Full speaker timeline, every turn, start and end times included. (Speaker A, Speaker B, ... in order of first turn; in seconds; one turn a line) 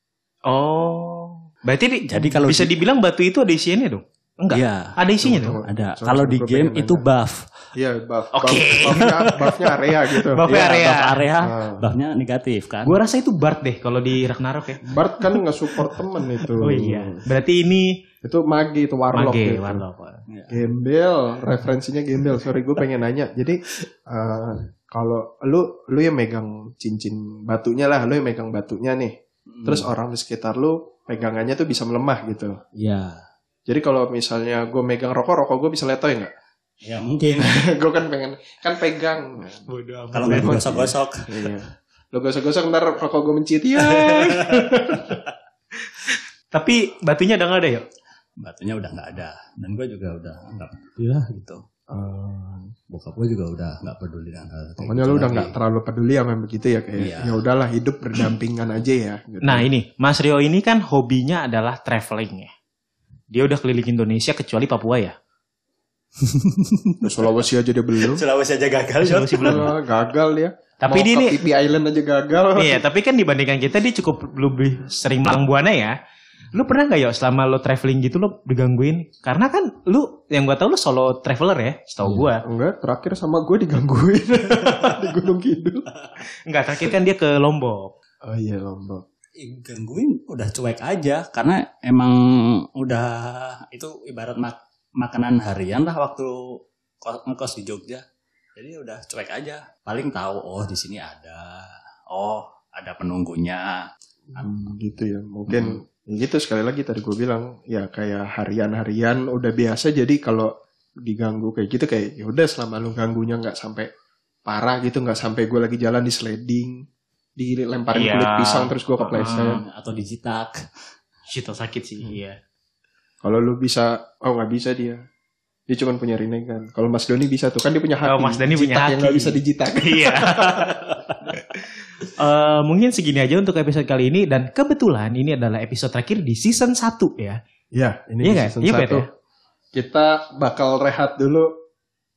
Speaker A: 0.5-5.6
Speaker B: 2.1-2.8
Speaker B: 4.5-5.0
Speaker C: 5.2-7.1
Speaker B: 5.5-7.5
Speaker C: 7.8-10.4
Speaker A: 8.3-9.5
Speaker A: 10.3-11.2
Speaker B: 10.4-13.0
Speaker C: 11.4-11.9
Speaker A: 12.9-15.3
Speaker C: 14.8-17.2
Speaker A: 16.6-18.0
Speaker C: 18.2-19.9
Speaker A: 19.1-20.2
Speaker B: 20.3-20.6
Speaker C: 20.5-32.6
Speaker B: 29.5-29.9
Speaker B: 32.8-33.3
Speaker C: 33.7-36.3
Speaker B: 36.8-37.6
Speaker C: 37.4-39.7
Speaker A: 39.7-40.6
Speaker B: 40.1-41.6
Speaker C: 40.2-45.2
Speaker B: 43.9-44.7
Speaker A: 46.0-47.9
Speaker B: 48.4-51.6
Speaker C: 51.9-52.7
Speaker B: 52.9-55.5
Speaker C: 54.8-59.7
Speaker B: 57.0-57.4
Speaker A: 59.4-62.5
Speaker A: 63.3-65.2
Speaker B: 66.2-67.3
Speaker C: 67.0-68.2
Speaker B: 68.0-69.8
Speaker A: 69.0-69.7
Speaker C: 69.4-72.9
Speaker A: 70.8-71.4
Speaker A: 72.6-76.0
Speaker A: 76.5-82.4
Speaker B: 82.0-82.3
Speaker C: 82.4-85.8
Speaker A: 86.5-88.0
Speaker C: 88.2-89.0
Speaker B: 89.4-98.0
Speaker B: 98.6-103.8
Speaker C: 104.3-110.5
Speaker B: 105.5-105.8
Speaker C: 111.0-113.9
Speaker C: 114.5-116.9
Speaker C: 117.4-119.6
Speaker A: 117.9-119.5
Speaker B: 119.1-120.7
Speaker A: 121.3-122.4
Speaker C: 123.2-125.0
Speaker C: 125.7-130.9
Speaker A: 128.1-137.4
Speaker C: 137.7-139.1
Speaker A: 138.2-139.1
Speaker C: 139.7-141.6